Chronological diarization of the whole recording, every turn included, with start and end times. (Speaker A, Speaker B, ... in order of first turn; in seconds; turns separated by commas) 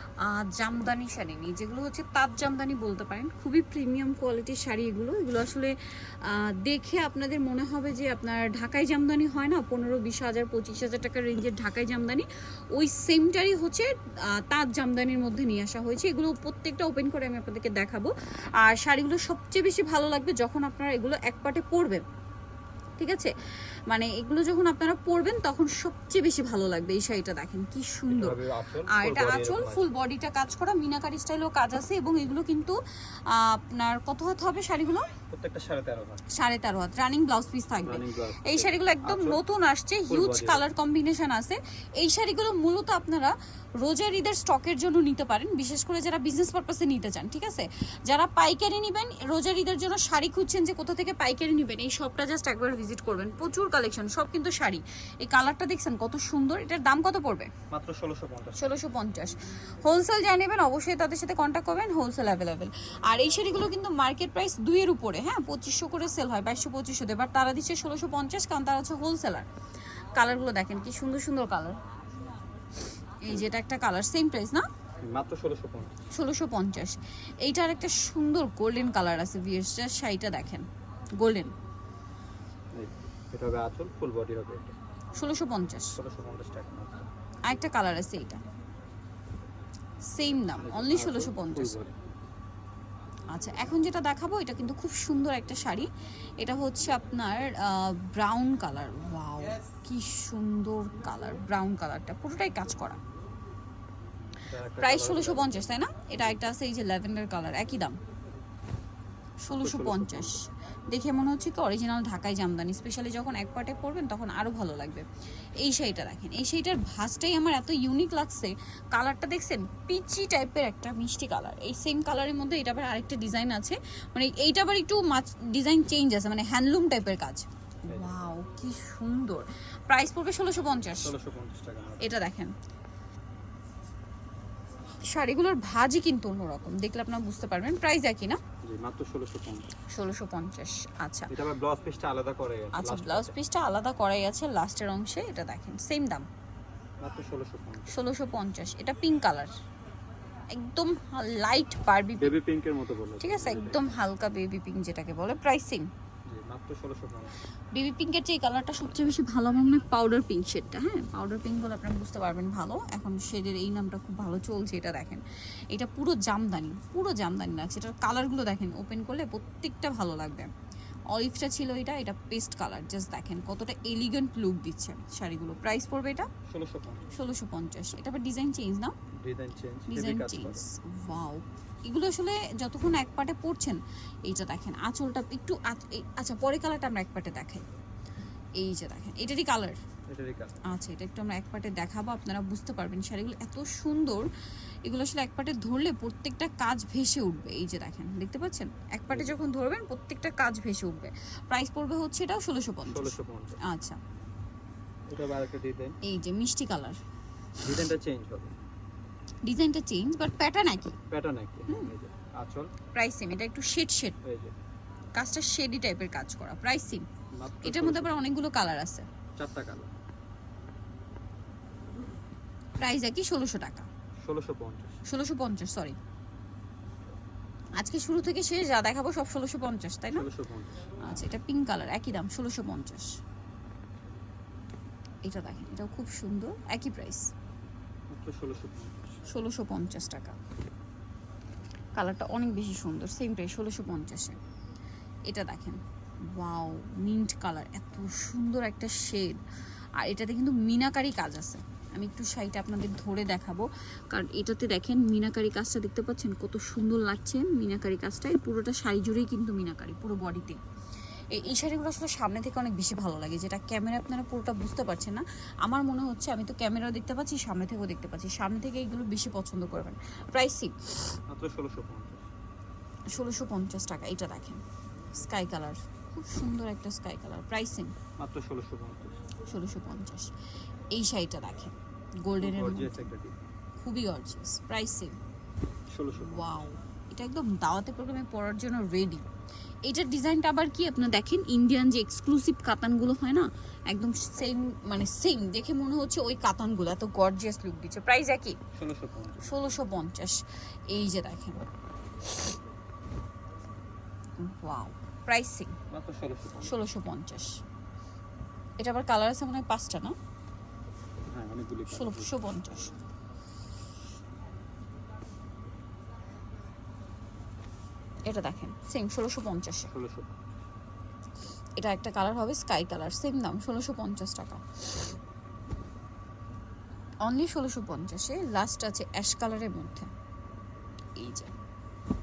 Speaker A: 0.2-22.0, Speaker A: 23.0-23.3, Speaker A: 23.9-35.1, Speaker B: 28.1-29.9, Speaker B: 35.3-36.2, Speaker A: 36.3-57.5, Speaker B: 37.8-39.4, Speaker B: 40.1-40.6, Speaker B: 57.7-58.6, Speaker A: 58.6-69.5, Speaker A: 70.1-71.8, Speaker A: 73.2-74.7, Speaker B: 75.0-75.9, Speaker A: 76.1-80.7, Speaker A: 81.2-81.5, Speaker B: 82.7-84.8, Speaker A: 85.1-86.0, Speaker B: 86.0-87.0, Speaker A: 87.4-88.4, Speaker A: 90.0-91.7, Speaker B: 90.6-91.9, Speaker A: 93.3-95.9, Speaker A: 96.4-103.0, Speaker B: 104.5-105.7, Speaker A: 104.8-108.0, Speaker A: 109.4-115.1, Speaker B: 109.5-110.5, Speaker A: 115.6-131.1, Speaker B: 127.9-128.1, Speaker B: 131.0-132.1, Speaker A: 132.0-132.5, Speaker A: 135.1-138.4, Speaker B: 138.6-139.7, Speaker A: 139.9-141.3, Speaker B: 141.3-143.3, Speaker A: 142.7-146.3, Speaker B: 147.0-148.0, Speaker A: 147.9-149.6, Speaker A: 150.5-152.4, Speaker B: 152.2-153.9, Speaker A: 153.2-155.9, Speaker B: 156.3-157.4, Speaker A: 157.7-170.5, Speaker A: 171.1-176.3, Speaker B: 176.5-177.1, Speaker A: 177.1-178.9, Speaker B: 179.2-180.7, Speaker A: 179.9-187.7, Speaker A: 188.6-189.8, Speaker B: 190.1-190.6, Speaker A: 190.7-194.3, Speaker A: 194.8-204.0, Speaker B: 199.1-199.4, Speaker B: 202.8-203.6, Speaker B: 205.1-206.0, Speaker A: 206.0-207.0, Speaker B: 207.6-208.6, Speaker A: 209.4-211.0, Speaker B: 211.1-212.7, Speaker A: 211.7-211.9, Speaker A: 212.9-214.2, Speaker B: 214.2-214.6, Speaker A: 215.2-217.1, Speaker B: 217.3-218.2, Speaker A: 217.6-219.1, Speaker B: 219.4-219.9, Speaker A: 222.8-223.9, Speaker B: 224.2-225.0, Speaker A: 225.1-226.0, Speaker A: 227.8-230.3, Speaker B: 230.1-230.8, Speaker A: 231.0-233.2, Speaker A: 235.2-237.3, Speaker B: 238.1-239.2, Speaker A: 239.3-240.4, Speaker A: 241.9-244.4, Speaker A: 245.3-249.4, Speaker A: 250.0-260.6, Speaker A: 261.3-271.2, Speaker B: 271.3-272.3, Speaker A: 273.1-274.6, Speaker A: 275.1-277.9, Speaker B: 278.2-279.2, Speaker A: 279.4-280.4, Speaker A: 280.9-283.1, Speaker B: 282.4-283.4, Speaker A: 283.8-285.2, Speaker B: 285.9-286.6, Speaker A: 286.1-289.2, Speaker A: 289.8-298.6, Speaker B: 298.7-299.6, Speaker A: 299.4-301.7, Speaker A: 304.4-305.8, Speaker B: 305.9-306.8, Speaker A: 306.6-307.6, Speaker A: 308.8-310.2, Speaker B: 311.3-312.3, Speaker A: 311.9-312.9, Speaker A: 318.2-319.9, Speaker B: 319.9-320.4, Speaker A: 321.8-325.1, Speaker A: 327.2-330.1, Speaker A: 331.2-331.5